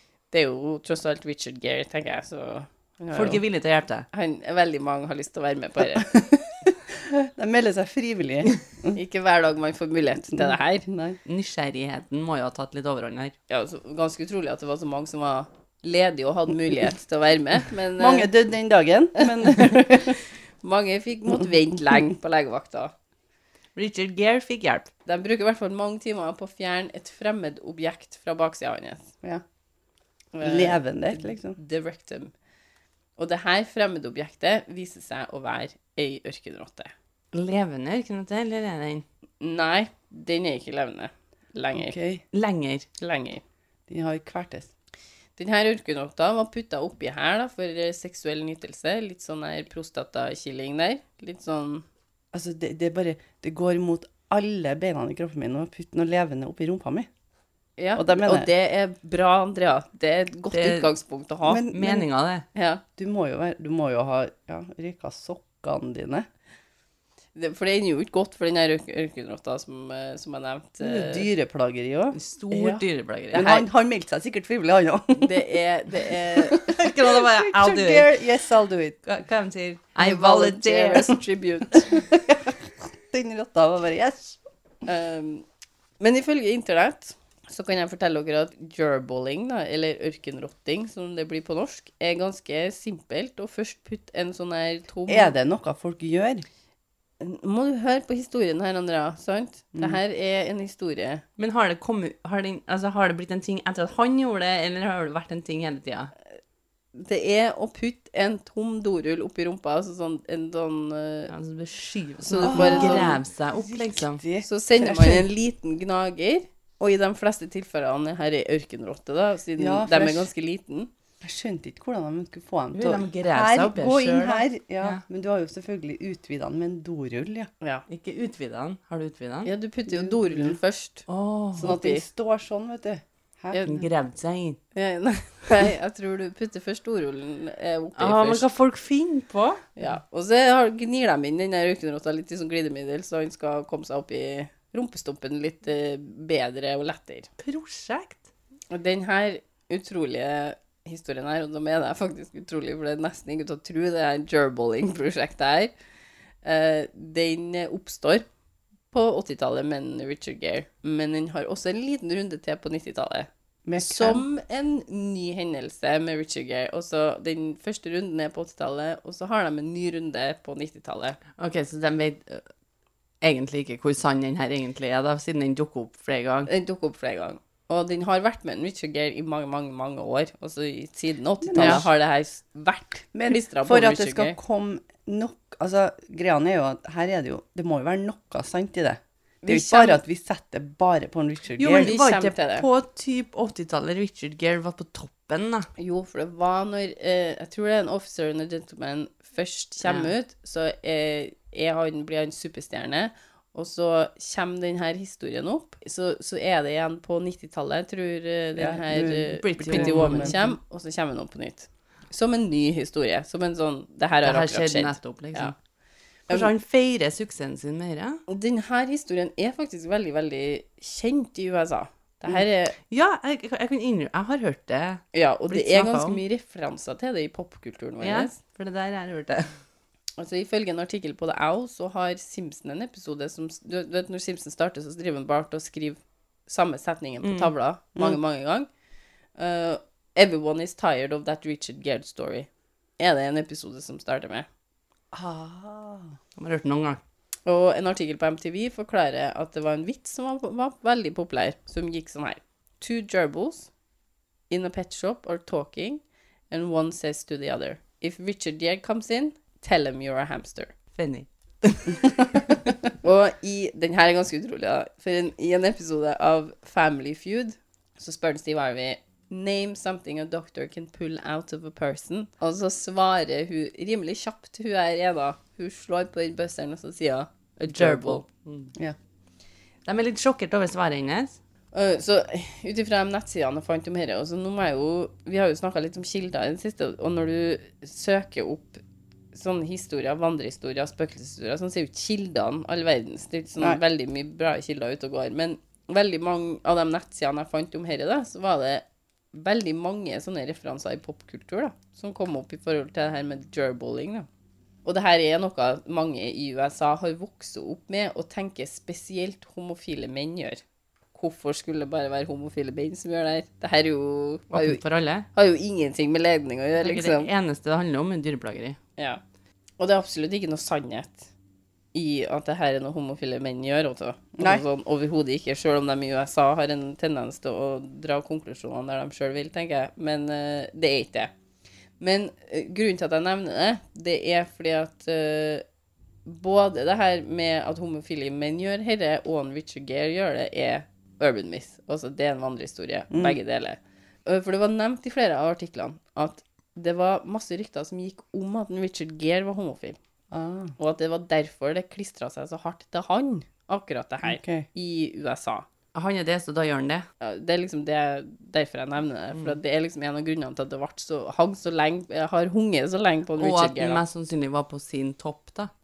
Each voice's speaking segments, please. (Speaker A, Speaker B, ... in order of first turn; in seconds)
Speaker A: 0.3-3.4, 4.1-6.1, 8.9-10.9, 13.5-18.3, 19.2-22.9, 25.1-29.1, 30.3-32.3, 33.2-36.9, 39.4-42.0, 43.0-43.4, 45.4-51.8, 57.8-61.6, 62.5-62.8, 67.3-71.3, 73.3-73.7, 75.1-76.6, 80.0-82.0, 84.8-85.4, 86.0-95.3, 97.2-101.2, 106.9-111.3, 112.2-113.2, 114.4-120.9, 129.4-131.1, 131.6-132.0, 133.5-133.8, 134.7-138.4, 139.8-147.3, 148.7-155.7, 156.4-158.2, 158.9-171.2, 176.5-184.3, 189.4-190.0, 191.8-192.7, 195.8-215.5, 218.3-222.8, 225.1-228.4, 230.2-238.7, 239.4-242.5, 243.0-244.5, 247.4-253.7, 254.5-260.7, 263.0-278.2, 281.7-288.8, 289.3-304.3, 304.8-310.6, 311.1-314.8, 315.3-317.3, 319.8-321.3, 321.9-331.3, 332.0-335.6, 336.2-350.0, 350.8-355.6, 357.2-364.0
Speaker B: 3.1-4.1, 11.2-13.3, 23.8-24.9, 37.3-39.0, 42.3-42.9, 60.5-60.9, 61.7-62.5, 72.1-73.5, 76.6-78.1, 79.0-81.2, 101.4-106.1, 111.3-114.2, 122.7-125.0, 127.9-129.5, 131.1-131.8, 133.6-134.6, 138.0-139.6, 147.4-148.2, 171.3-172.5, 173.2-176.5, 181.6-181.8, 191.6-195.7, 199.8-200.1, 209.4-210.5, 214.2-215.5, 216.3-218.2, 222.3-226.2, 228.0-229.5, 237.2-237.5, 246.4-247.0, 260.9-262.7, 277.7-278.7, 279.9-281.4, 314.5-315.3, 316.8-318.8, 355.9-357.1, 363.4-365.7
Speaker C: 5.9-9.0, 10.2-11.2, 18.0-20.2, 30.4-31.6, 41.8-42.2, 43.9-44.7, 52.3-57.1, 57.9-58.5, 61.4-62.1, 63.0-66.3, 70.8-75.5, 76.1-79.0, 81.9-84.4, 95.1-96.5, 99.7-100.0, 112.4-115.3, 119.6-120.3, 121.2-127.5, 129.9-130.6, 131.5-133.6, 163.7-164.2, 181.4-181.8, 183.1-191.9, 208.6-210.4, 245.1-246.2, 324.4-324.6, 343.1-343.4, 350.3-350.7, 354.2-354.7